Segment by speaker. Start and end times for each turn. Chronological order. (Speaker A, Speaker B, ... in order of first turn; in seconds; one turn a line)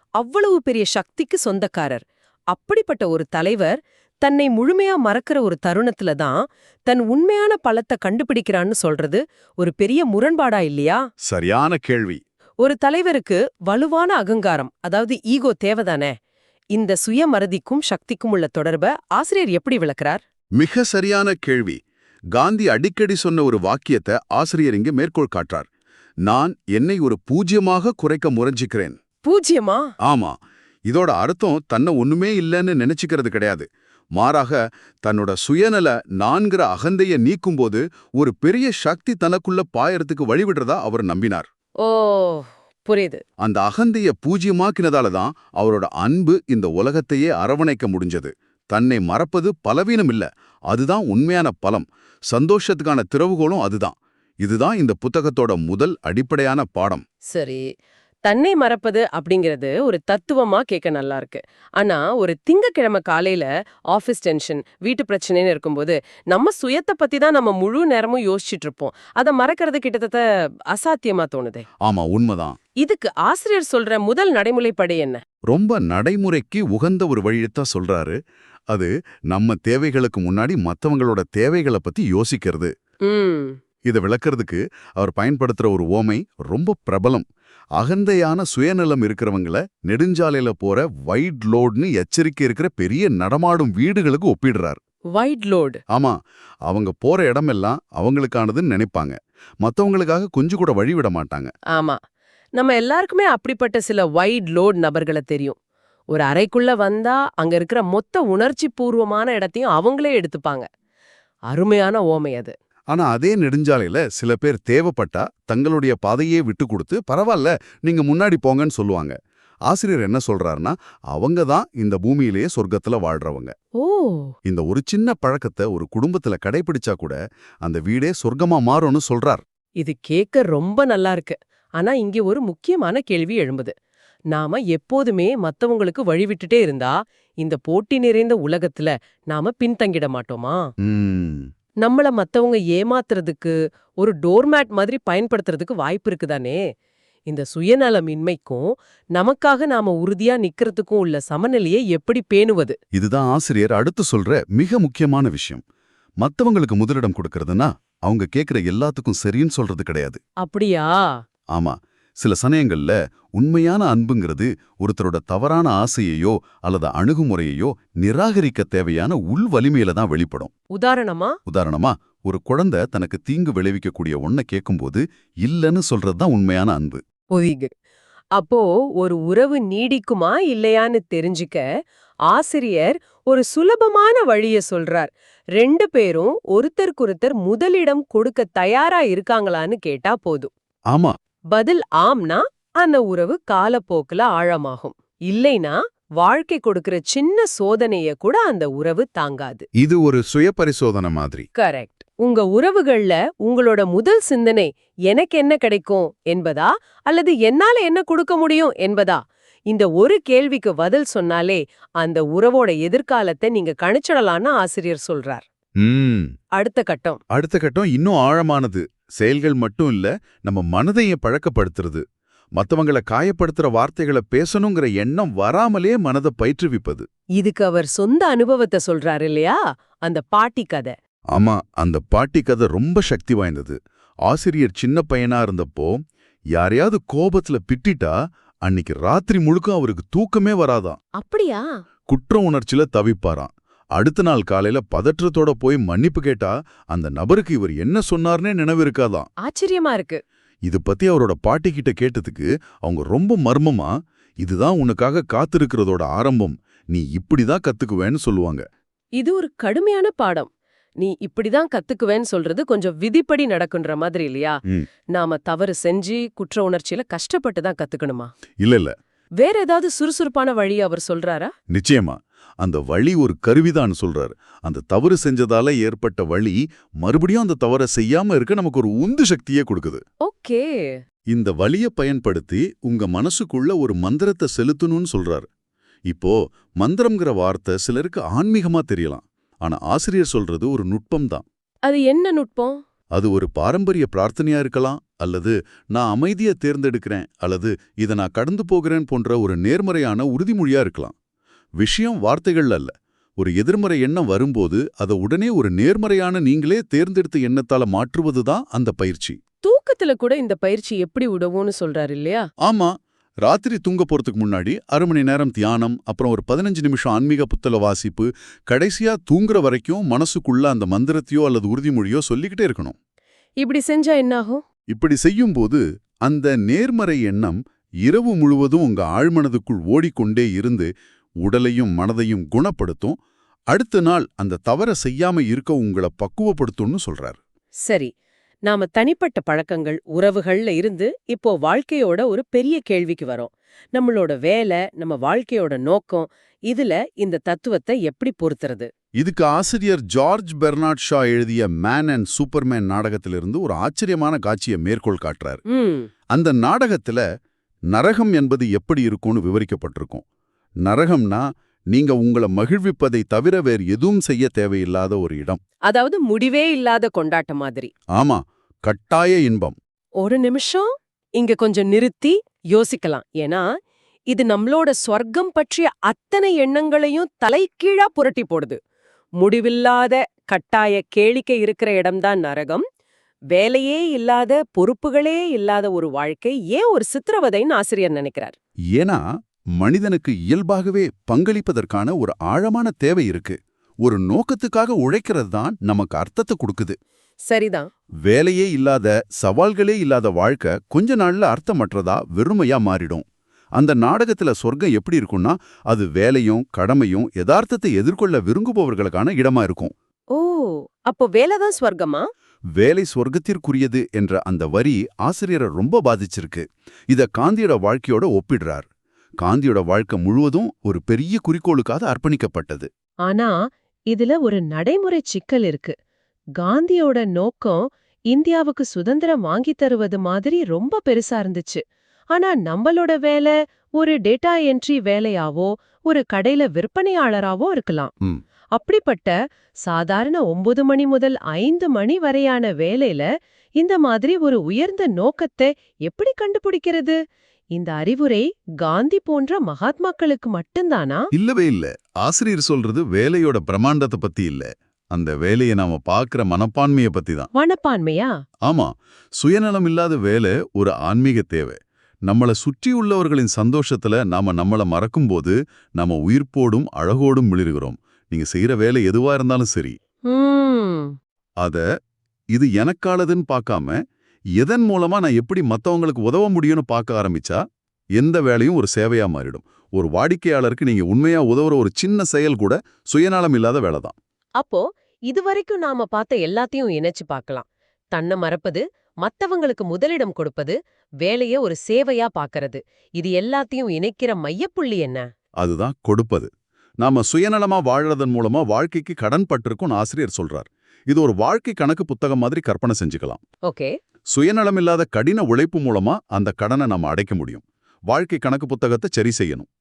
Speaker A: 0.2-11.0
Speaker B: 11.2-12.2
Speaker A: 12.6-16.1
Speaker A: 16.7-20.2
Speaker B: 20.6-21.8
Speaker B: 22.3-25.7
Speaker B: 26.2-28.9
Speaker A: 29.2-29.9
Speaker B: 30.1-30.4
Speaker B: 30.9-41.5
Speaker A: 41.8-43.2
Speaker B: 43.4-57.0
Speaker A: 57.3-57.6
Speaker A: 58.2-71.6
Speaker B: 71.8-72.6
Speaker A: 72.8-75.2
Speaker B: 75.5-78.2
Speaker B: 78.7-82.7
Speaker A: 83.1-83.6
Speaker B: 83.8-87.2
Speaker B: 87.8-94.8
Speaker A: 95.2-95.8
Speaker B: 95.9-96.2
Speaker B: 96.7-101.5
Speaker A: 101.7-102.0
Speaker A: 102.6-105.6
Speaker A: 106.1-110.7
Speaker A: 111.5-112.5
Speaker B: 112.9-119.2
Speaker B: 119.7-123.5
Speaker A: 123.8-124.3
Speaker B: 124.4-129.4
Speaker A: 129.8-133.7
Speaker A: 134.3-140.6
Speaker B: 140.8-141.5
Speaker A: 141.8-146.6
Speaker A: 147.3-152.8
Speaker B: 152.9-155.6
Speaker B: 156.2-160.2
Speaker A: 160.4-161.2
Speaker B: 161.5-170.5
Speaker A: 170.7-171.3
Speaker B: 171.5-177.0
Speaker A: 177.3-177.7
Speaker A: 178.3-181.6
Speaker A: 182.3-190.5
Speaker B: 190.9-191.2
Speaker A: 191.5-199.7
Speaker B: 199.8-201.5
Speaker A: 201.6-215.4
Speaker B: 215.8-216.3
Speaker A: 216.6-217.2
Speaker B: 217.3-222.0
Speaker B: 222.6-227.1
Speaker A: 227.4-230.9
Speaker B: 231.3-236.0
Speaker B: 236.5-238.1
Speaker B: 238.7-241.0
Speaker A: 241.2-241.7
Speaker B: 242.1-249.3
Speaker A: 249.4-250.2
Speaker B: 250.7-253.9
Speaker B: 254.4-258.6
Speaker A: 259.2-264.6
Speaker A: 265.1-268.3
Speaker B: 268.6-268.9
Speaker A: 269.4-271.5
Speaker B: 271.7-280.0
Speaker A: 280.2-281.0
Speaker B: 281.3-285.5
Speaker B: 286.1-291.4
Speaker A: 291.9-292.8
Speaker B: 293.1-301.1
Speaker B: 301.8-309.4
Speaker A: 309.6-312.4
Speaker B: 312.6-312.9
Speaker B: 313.4-322.9
Speaker A: 323.6-324.6
Speaker B: 324.9-330.9
Speaker B: 331.4-333.1
Speaker B: 333.7-337.4
Speaker A: 338.7-348.9
Speaker B: 349.2-355.6
Speaker A: 355.7-356.1
Speaker B: 356.3-357.2
Speaker B: 357.9-360.2
Speaker B: 360.9-365.6
Speaker A: 365.9-367.9
Speaker B: 368.1-369.8
Speaker A: 370.2-373.6
Speaker A: 374.3-378.8
Speaker A: 379.4-382.8
Speaker A: 383.5-388.5
Speaker B: 388.9-389.2
Speaker B: 389.8-396.9
Speaker A: 397.5-397.9
Speaker B: 398.2-403.2
Speaker B: 403.8-409.9
Speaker A: 410.3-412.3
Speaker B: 412.8-418.9
Speaker B: 419.4-422.9
Speaker A: 423.3-423.5
Speaker A: 424.1-425.9
Speaker A: 426.6-431.8
Speaker A: 432.3-438.1
Speaker A: 438.7-439.3
Speaker A: 439.9-443.3
Speaker A: 443.8-447.2
Speaker A: 447.8-451.3
Speaker B: 451.3-457.5
Speaker A: 457.5-458.3
Speaker B: 458.6-461.8
Speaker B: 462.3-469.9
Speaker A: 470.3-471.1
Speaker B: 472.5-473.9
Speaker B: 474.6-477.6
Speaker B: 478.2-484.1
Speaker A: 484.6-495.2
Speaker B: 495.6-496.5
Speaker B: 497.0-503.4
Speaker A: 503.7-503.9
Speaker B: 504.3-509.7